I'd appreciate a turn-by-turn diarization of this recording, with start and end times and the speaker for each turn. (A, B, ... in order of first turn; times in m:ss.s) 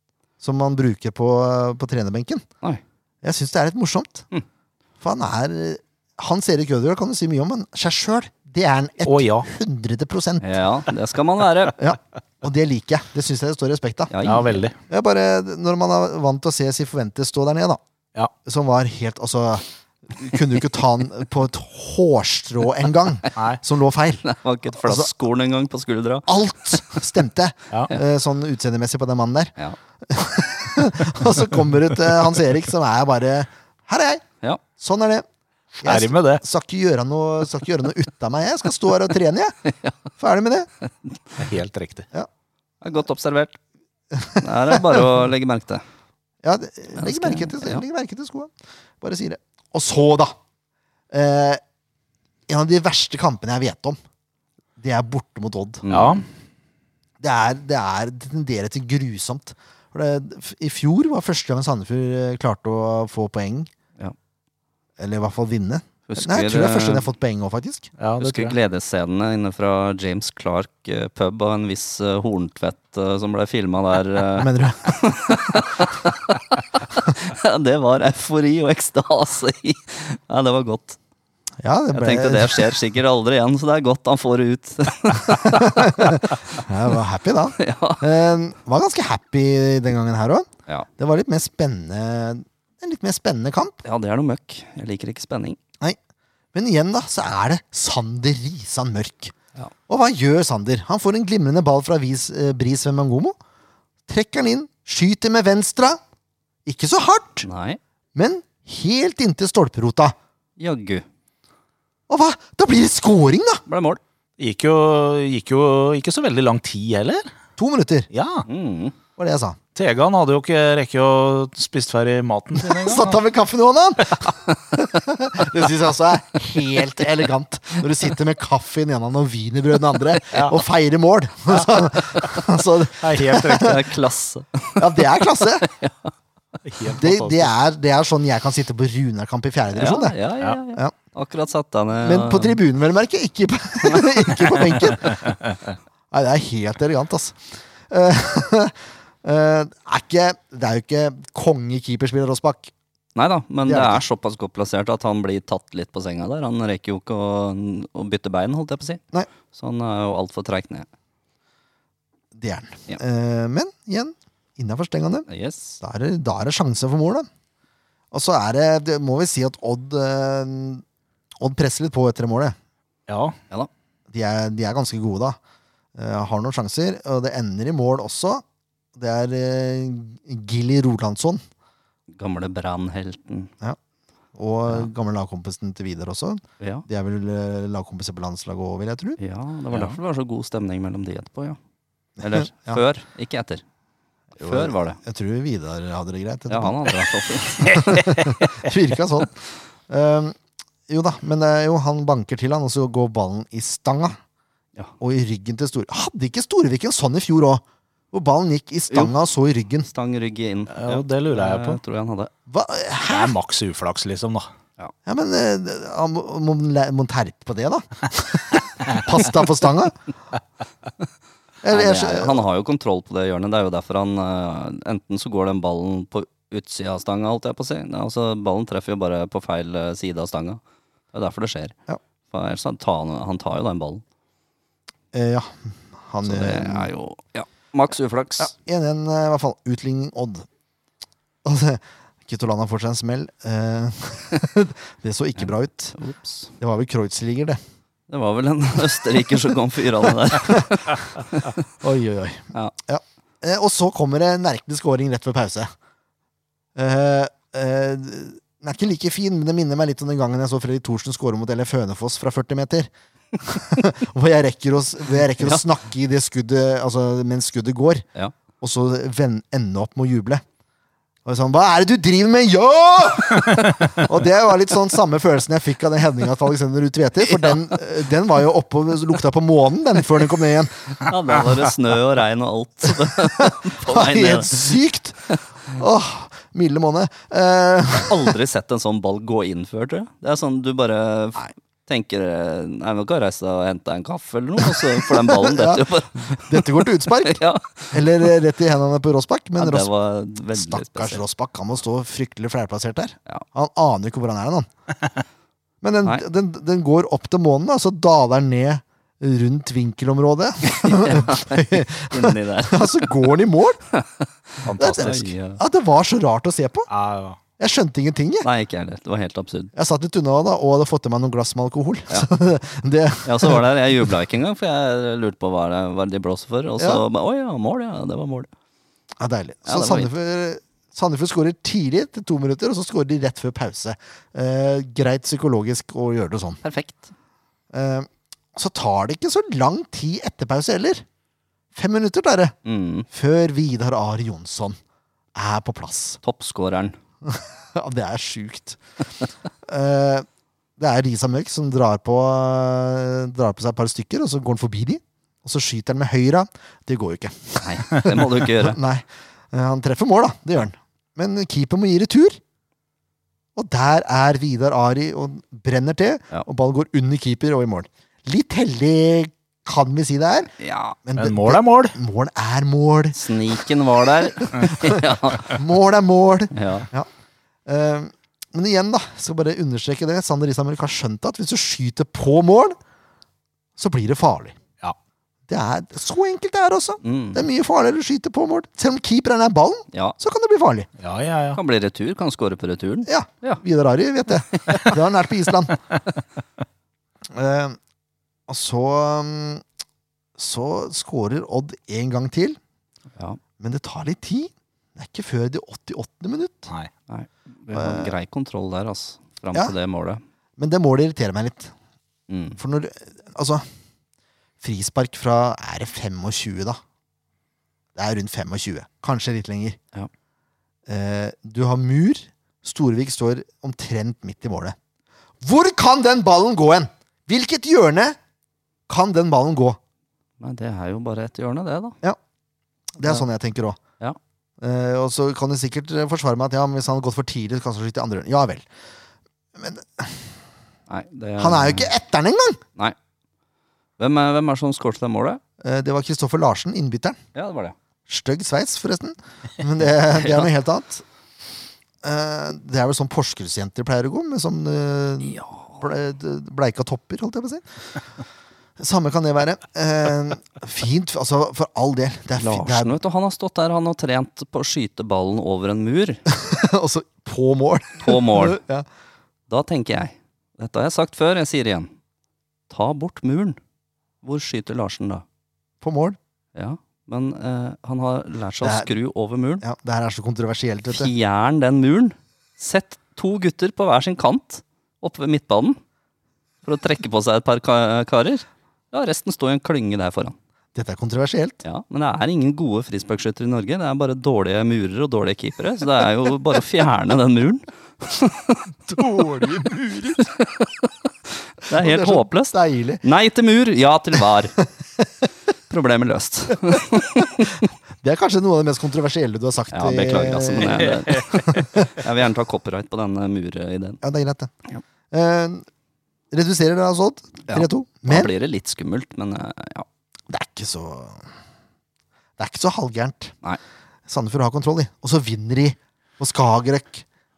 0:00.4-0:02.4 A
0:03.2-0:04.3 A
0:05.0-0:10.6 A
0:09.0-0:09.5 B
0:10.4-0:11.8 C
0:11.8-0:14.2 A
0:14.1-0:14.6 C
0:14.2-0:14.8 B
0:14.9-0:17.8 A
0:18.4-0:25.1 A
0:24.2-0:27.0 C
0:26.3-0:34.2 A
0:34.8-0:35.2 A
0:35.8-0:39.6 A
0:35.8-0:36.4 B
0:39.6-0:40.0 C
0:40.2-0:40.7 A
0:41.4-0:42.1 B
0:42.8-0:43.6 C
0:44.1-0:45.0 A
0:44.4-0:45.8 C
0:46.4-0:50.4 A
0:47.0-0:47.8 C
0:51.1-0:51.6 A
0:52.5-0:54.0 A
0:54.8-0:55.8 A
0:55.8-0:56.2 C
0:55.9-0:56.2 B
0:57.2-1:03.7 A
1:05.0-1:07.9 A
1:06.1-1:07.0 C
1:08.0-1:08.5 B
1:08.2-1:21.0 C
1:14.4-1:15.0 A
1:21.6-1:22.8 A
1:21.9-1:26.6 C
1:25.3-1:33.8 A
1:27.6-1:28.0 C
1:33.8-1:35.6 C
1:36.5-1:39.3 A
1:39.9-1:43.4 A
1:44.1-1:46.0 A
1:46.6-1:47.5 A
1:47.4-1:47.8 C
1:48.1-1:50.1 A
1:50.6-1:51.0 C
1:52.1-1:53.6 A
1:53.7-1:54.0 C
1:54.4-1:57.3 B
1:57.6-1:58.1 A
1:58.1-1:58.4 B
1:58.5-1:58.9 C
1:59.2-1:59.6 A
1:59.7-2:03.2 B
2:02.6-2:13.7 A
2:13.0-2:13.9 B
2:13.6-2:16.1 C
2:14.8-2:15.7 A
2:16.6-2:17.5 B
2:16.9-2:20.2 A
2:19.7-2:22.6 C
2:22.0-2:25.4 A
2:26.1-2:32.7 A
2:33.1-2:40.9 C
2:33.6-2:34.0 A
2:42.3-2:45.3 A
2:45.3-2:45.8 C
2:45.8-2:47.3 A
2:48.1-2:50.8 A
2:51.4-2:52.6 A
2:53.1-2:53.4 B
2:54.1-2:55.4 A
2:56.0-2:58.4 A
2:58.9-3:01.4 A
3:02.1-3:03.5 C
3:04.3-3:09.2 A
3:06.6-3:06.8 C
3:09.2-3:11.6 C
3:12.2-3:13.6 C
3:12.2-3:12.8 A
3:14.4-3:15.0 C
3:14.4-3:16.9 A
3:16.5-3:18.5 C
3:17.6-3:20.4 A
3:20.9-3:24.2 A
3:25.0-3:29.9 A
3:29.9-3:32.3 C
3:30.7-3:31.8 B
3:32.5-3:33.3 A
3:33.1-3:34.5 B
3:35.0-3:40.0 A
3:41.6-3:42.4 A
3:41.7-3:50.6 C
3:51.1-3:51.7 C
3:52.3-3:54.0 C
3:55.1-3:56.9 A
3:56.2-3:58.5 C
3:58.4-4:00.5 A
4:01.4-4:06.0 A
4:05.4-4:06.5 C
4:06.6-4:07.6 A
4:08.1-4:11.6 C
4:11.8-4:15.7 A
4:16.8-4:28.0 A
4:28.6-4:30.4 A
4:31.2-4:40.9 A
4:37.3-4:37.7 C
4:41.0-4:44.8 C
4:43.3-4:48.3 A
4:48.1-4:58.3 C
4:54.6-4:59.9 A
4:59.6-5:01.2 C
5:00.5-5:04.7 A
5:05.8-5:13.8 A
5:10.7-5:13.3 C
5:13.9-5:15.6 C
5:14.6-5:15.2 B
5:14.8-5:16.9 A
5:16.9-5:17.4 B
5:17.6-5:18.5 A
5:18.4-5:19.7 C
5:19.7-5:23.6 A
5:23.2-5:28.5 C
5:29.2-5:36.6 A
5:29.6-5:30.1 C
5:36.6-5:37.1 C
5:37.7-5:41.0 A
5:41.7-5:42.6 A
5:42.6-5:43.1 C
5:43.1-5:44.8 A
5:45.3-5:46.2 A
5:46.2-5:47.0 C
5:47.2-5:48.8 A
5:49.6-5:50.3 A
5:50.8-6:02.4 A
5:57.6-5:58.8 C
6:03.6-6:10.5 A
6:10.6-6:11.0 C
6:11.0-6:13.2 A
6:11.2-6:12.0 B
6:13.1-6:15.6 C
6:14.3-6:17.1 A
6:16.5-6:16.9 C
6:17.6-6:22.8 A
6:23.8-6:24.6 A
6:25.5-6:30.9 A
6:27.0-6:27.4 C
6:31.0-6:31.6 B
6:31.5-6:33.6 C
6:33.0-6:35.8 A
6:34.5-6:34.9 C
6:37.3-6:37.8 A
6:38.5-6:39.6 A
6:40.4-6:42.6 A
6:43.6-6:46.7 A
6:47.1-6:50.2 C
6:47.7-6:48.1 A
6:50.6-6:51.7 A
6:52.3-6:52.6 C
6:52.6-6:53.6 A
6:54.6-6:56.8 A
6:58.0-6:59.8 A
7:00.9-7:04.8 A
7:05.4-7:08.2 A
7:08.9-7:09.8 A
7:10.4-7:12.0 C
7:13.0-7:13.8 A
7:14.6-7:18.6 A
7:19.6-7:20.3 A
7:20.9-7:21.9 C
7:21.4-7:22.6 A
7:24.0-7:25.4 C
7:25.6-7:27.2 A
7:27.3-7:27.7 C
7:28.1-7:31.0 A
7:30.2-7:30.5 C
7:32.0-7:37.6 A
7:35.3-7:35.8 C
7:38.8-7:42.9 A
7:42.4-7:46.2 C
7:46.3-7:48.8 A
7:48.0-7:48.6 C
7:49.5-7:51.9 C
7:52.7-7:53.6 C
7:54.2-7:55.2 C
7:55.8-7:56.2 A
7:56.5-7:59.6 C
7:58.6-7:58.9 A
7:59.6-8:01.1 A
8:00.9-8:05.8 C
8:06.6-8:10.4 C
8:10.7-8:11.6 A
8:11.6-8:19.5 C
8:18.9-8:20.2 A
8:20.2-8:24.6 C
8:21.7-8:23.0 A
8:25.7-8:27.6 C
8:26.8-8:32.0 A
8:29.7-8:34.0 C
8:30.8-8:31.4 B
8:34.0-8:34.5 A
8:35.1-8:35.7 A
8:36.3-8:38.3 A
8:37.5-8:39.9 C
8:40.3-8:41.3 A
8:42.4-8:43.3 A
8:44.1-8:47.0 A